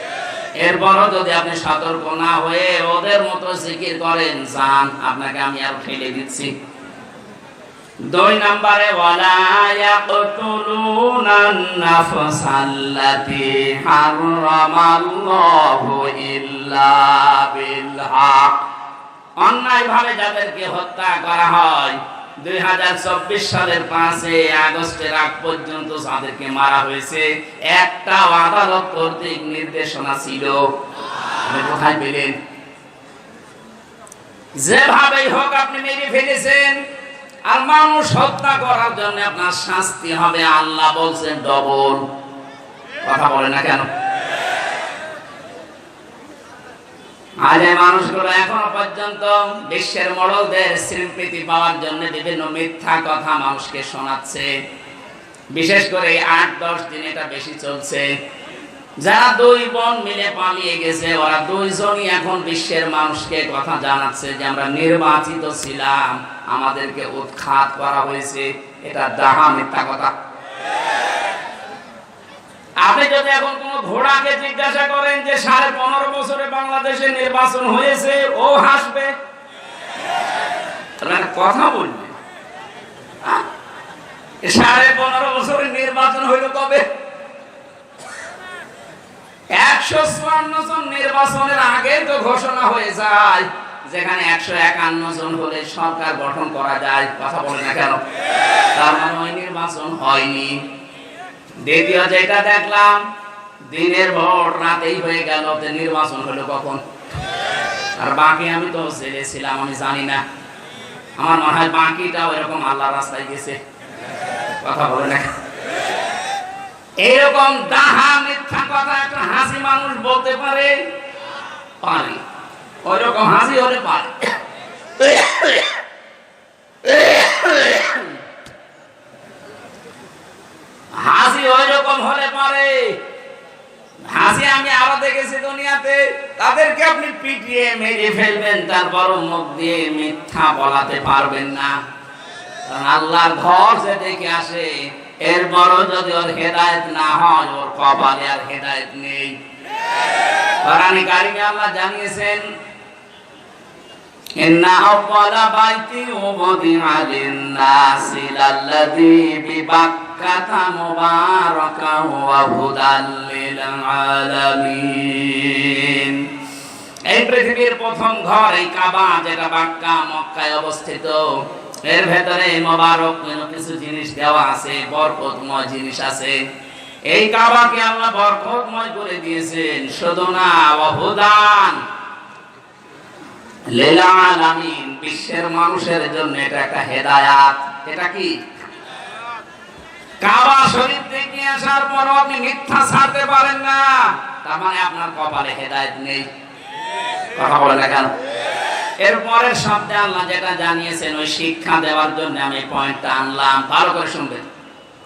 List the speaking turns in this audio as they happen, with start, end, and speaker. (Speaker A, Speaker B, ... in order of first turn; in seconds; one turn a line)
Speaker A: 0.6-6.5
Speaker A: 8.1-18.6
Speaker A: 19.4-30.7
Speaker A: 31.4-32.4
Speaker A: 34.6-36.8
Speaker A: 37.5-42.0
Speaker A: 43.0-43.9
Speaker A: 47.4-54.5
Speaker A: 55.5-58.1
Speaker A: 59.0-70.1
Speaker A: 72.8-79.1
Speaker A: 81.0-82.2
Speaker A: 84.4-86.8
Speaker A: 89.5-98.0
Speaker A: 98.8-100.6
Speaker A: 101.7-103.0
Speaker A: 103.7-106.8
Speaker A: 108.0-110.2
Speaker A: 111.2-113.6
Speaker A: 114.6-115.3
Speaker A: 117.0-120.8
Speaker A: 121.8-122.2
Speaker A: 122.8-124.3
Speaker A: 125.0-125.5
Speaker A: 126.9-128.0
Speaker A: 130.9-133.0
Speaker A: 134.1-141.8
Speaker A: 142.7-149.4
Speaker A: 150.6-152.5
Speaker A: 154.4-166.3
Speaker A: 167.1-176.4
Speaker A: 177.1-181.8
Speaker A: 183.7-188.4
Speaker A: 190.2-196.3
Speaker A: 197.4-198.1
Speaker A: 199.0-204.5